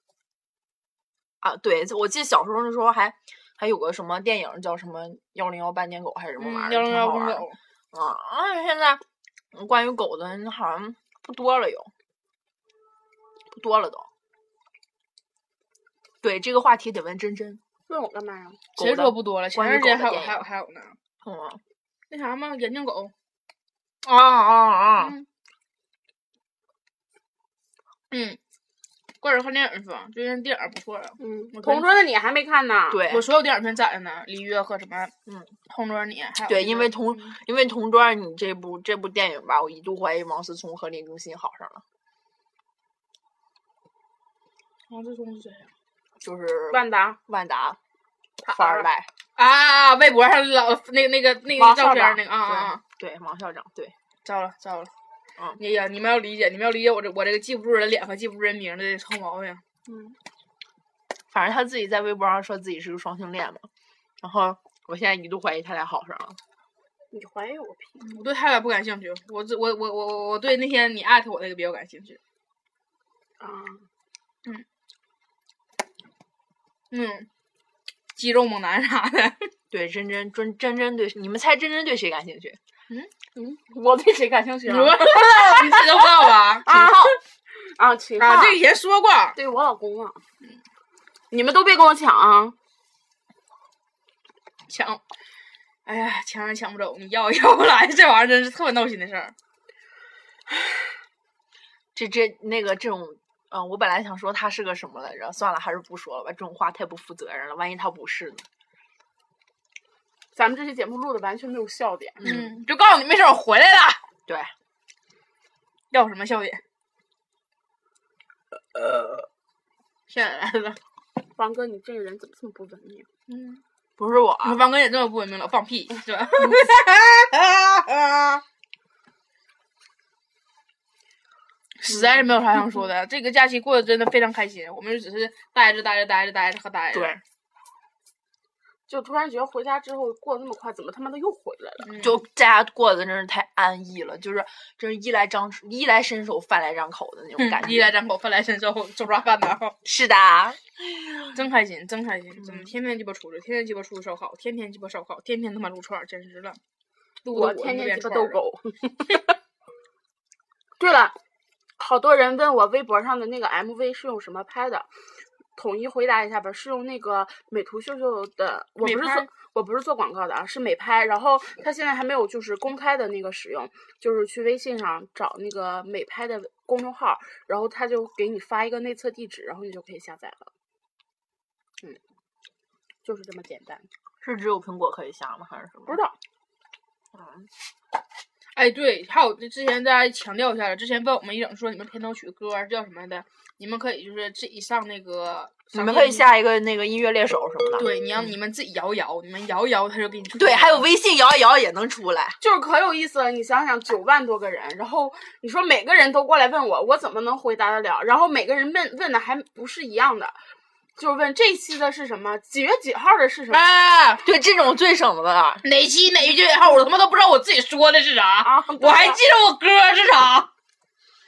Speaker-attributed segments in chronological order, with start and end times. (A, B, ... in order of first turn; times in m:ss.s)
0:01.4-0:09.0 A
0:06.4-0:07.6 B
0:09.5-0:11.9 A
0:13.5-0:14.1 A
0:16.2-0:17.6 A
0:17.9-0:18.6 C
0:18.8-0:21.0 B
0:18.8-0:20.4 A
0:21.2-0:21.6 A
0:22.1-0:23.1 B
0:24.0-0:25.1 A
0:25.0-0:25.3 B
0:28.1-0:28.4 B
0:29.2-0:32.0 B
0:31.2-0:33.0 C
0:32.9-0:33.3 A
0:33.1-0:35.1 B
0:35.7-0:37.0 B
0:36.5-0:41.8 A
0:44.9-0:45.7 B
0:46.2-0:47.8 A
0:46.7-0:47.2 C
0:48.4-0:48.9 C
0:48.5-0:49.1 A
0:49.4-0:52.8 B
0:51.6-0:52.2 C
0:52.4-0:53.9 A
0:54.2-0:54.9 B
0:55.6-0:59.6 B
0:59.9-1:00.2 C
1:01.3-1:03.7 A
1:04.2-1:06.4 A
1:07.1-1:08.0 C
1:08.0-1:12.2 B
1:13.4-1:13.9 C
1:16.9-1:17.3 B
1:18.1-1:19.5 B
1:19.7-1:22.6 A
1:23.4-1:28.6 C
1:24.7-1:27.1 B
1:28.2-1:29.4 B
1:29.4-1:30.2 C
1:31.3-1:32.6 C
1:34.7-1:35.0 B
1:35.9-1:39.3 B
1:42.0-1:48.4 A
1:50.4-1:52.2 C
1:52.2-1:52.5 A
1:52.2-1:54.0 B
1:54.3-1:54.5 A
1:55.9-1:56.6 B
2:00.1-2:00.8 B
2:01.4-2:03.1 C
2:03.3-2:03.6 B
2:04.0-2:04.6 A
2:04.4-2:08.4 B
2:11.8-2:17.2 B
2:16.9-2:17.2 A
2:18.9-2:21.9 C
2:21.8-2:22.2 B
2:22.0-2:27.9 A
2:27.4-2:29.8 B
2:29.8-2:31.2 A
2:31.3-2:36.6 B
2:32.4-2:32.7 A
2:37.2-2:38.4 B
2:37.3-2:39.4 C
2:40.8-2:41.2 C
2:41.8-2:44.9 C
2:45.6-3:00.5 C
2:48.8-2:49.3 B
3:03.0-3:03.8 C
3:04.2-3:06.0 A
3:05.9-3:06.2 C
3:08.6-3:16.2 B
3:15.7-3:17.9 A
3:17.8-3:20.9 B
3:20.4-3:22.4 A
3:22.4-3:30.4 C
3:31.0-3:33.6 C
3:33.5-3:34.2 B
3:34.2-3:35.6 A
3:35.6-3:40.5 B
3:38.4-3:39.2 C